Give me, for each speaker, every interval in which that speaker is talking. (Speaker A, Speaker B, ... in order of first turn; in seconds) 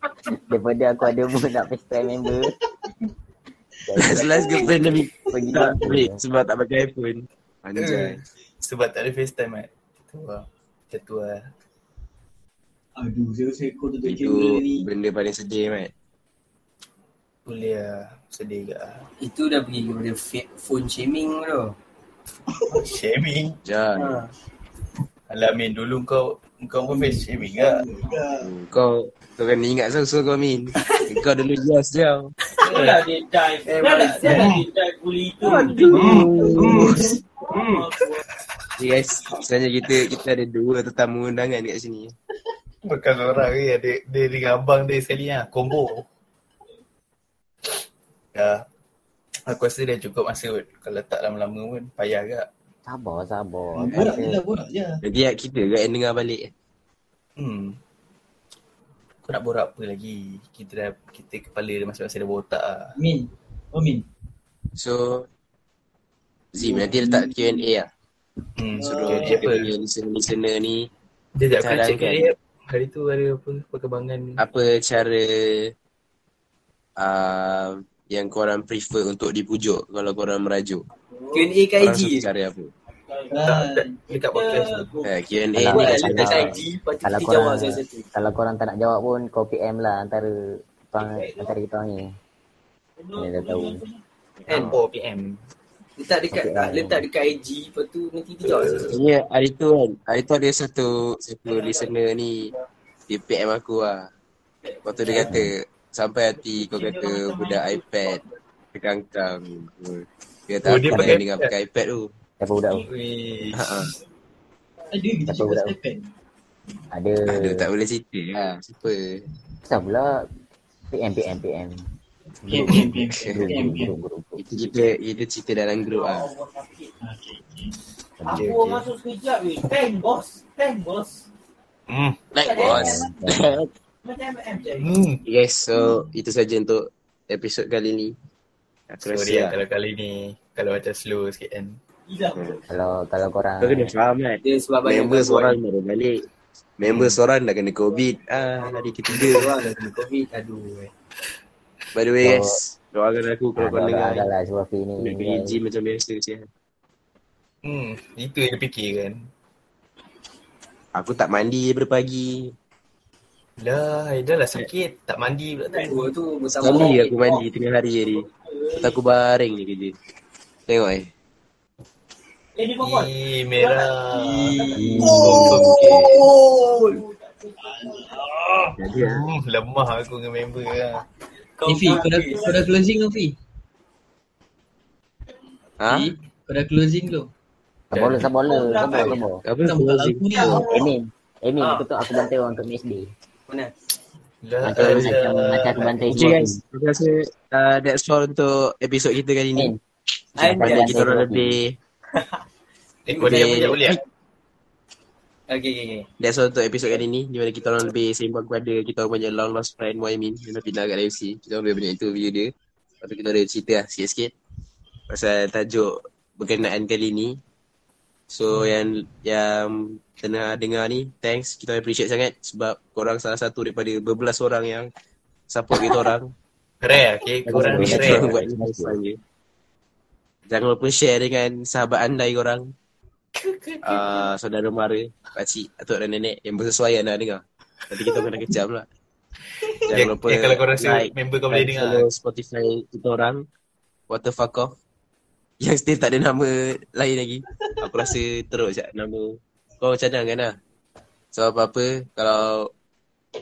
Speaker A: 0.5-2.5, 3.9-6.2, 52.9-54.4, 85.5-90.3, 90.9-92.1, 93.2-93.8, 96.3-97.0, 105.2-105.5, 112.4-112.8, 115.3-115.7, 116.9-117.7, 119.6-120.2, 120.9-121.8, 122.4-124.4, 128.2-128.5, 132.6-133.6, 142.7-143.9, 152.2-152.6, 153.6-155.6, 174.8-175.7, 187.9-189.4, 190.4-193.1, 194.6-196.6, 200.4-201.6, 227.5-229.0
Speaker B: 4.0-4.7, 5.3-5.7, 13.0-14.9, 22.5-22.9, 26.8-28.5, 35.8-37.2, 53.7-55.0, 63.0-64.0, 66.6-67.6, 68.8-69.5, 81.1-81.4, 83.3-84.0, 114.9-116.1, 122.4-123.9, 127.0-127.7, 174.1-176.8, 177.6-178.7, 181.7-183.3, 185.8-187.3, 189.6-190.6
Speaker C: 4.0-8.2, 14.0-15.9, 23.6-24.2, 28.4-32.3, 35.4-37.0, 38.8-42.1, 55.0-56.5, 64.8-65.3, 66.5-67.9, 68.8-70.9, 71.6-72.3, 74.4-75.7, 77.0-80.8, 81.8-82.7, 85.0-86.5, 98.9-102.5, 103.1-104.1, 104.8-108.2, 108.7-112.1, 113.5-113.9, 117.3-119.0, 123.1-123.5, 124.4-126.3, 132.3-133.6, 135.2-138.1, 138.9-139.6, 142.3-142.6, 143.6-146.2, 146.8-149.5, 151.9-154.3, 155.0-156.5, 160.9-162.5, 166.6-169.9, 170.7-171.1, 175.4-175.9, 178.8-179.2, 185.8-186.1, 189.4-190.6, 194.8-195.1, 196.1-199.7, 200.6-201.7, 203.2-204.0, 206.2-214.3, 215.1-217.4, 218.3-224.9, 225.5-226.3, 227.4-229.2, 230.5-232.7, 233.8-238.8, 239.9-243.4, 244.1-244.7, 245.6-250.6, 251.3-252.7
Speaker D: 7.8-11.4, 17.4-19.0, 22.7-23.6, 25.3-27.8, 34.2-34.6, 35.9-37.0, 37.5-38.1, 42.8-46.0, 48.3-48.6, 49.5-52.5, 57.4-57.8, 59.2-63.0, 68.5-69.7, 71.4-74.4, 83.4-84.9, 94.5-95.4, 98.4-99.0, 110.6-111.5, 112.7-113.9, 128.3-128.9, 131.9-132.3, 134.8-135.2, 139.1-141.8, 146.8-147.2, 157.6-159.2, 163.6-166.0, 172.8-176.2, 178.9-181.0, 187.9-188.2, 194.4-196.1, 203.1-204.0, 226.8-228.3, 233.3-234.3, 239.6-242.1
Speaker E: 19.2-21.7, 24.0-24.3, 33.6-34.1, 81.3-82.3, 85.7-88.0, 96.0-98.9, 144.4-145.6, 149.0-150.9, 165.7-167.1, 181.6-182.5, 191.6-191.9, 200.4-200.9, 203.1-203.8, 205.5-206.1
Speaker F: 32.6-35.9, 37.4-38.2, 82.9-83.5, 84.1-85.5, 91.0-91.5, 93.0-94.0, 101.5-101.9, 104.7-105.3, 106.3-108.4, 125.8-126.9, 128.3-131.3, 132.3-133.1, 134.0-135.0, 142.1-142.7, 147.9-149.3, 166.6-167.4, 168.1-169.0, 172.6-174.0, 174.6-175.0, 176.7-178.2, 181.8-182.7, 188.4-189.2, 190.4-190.9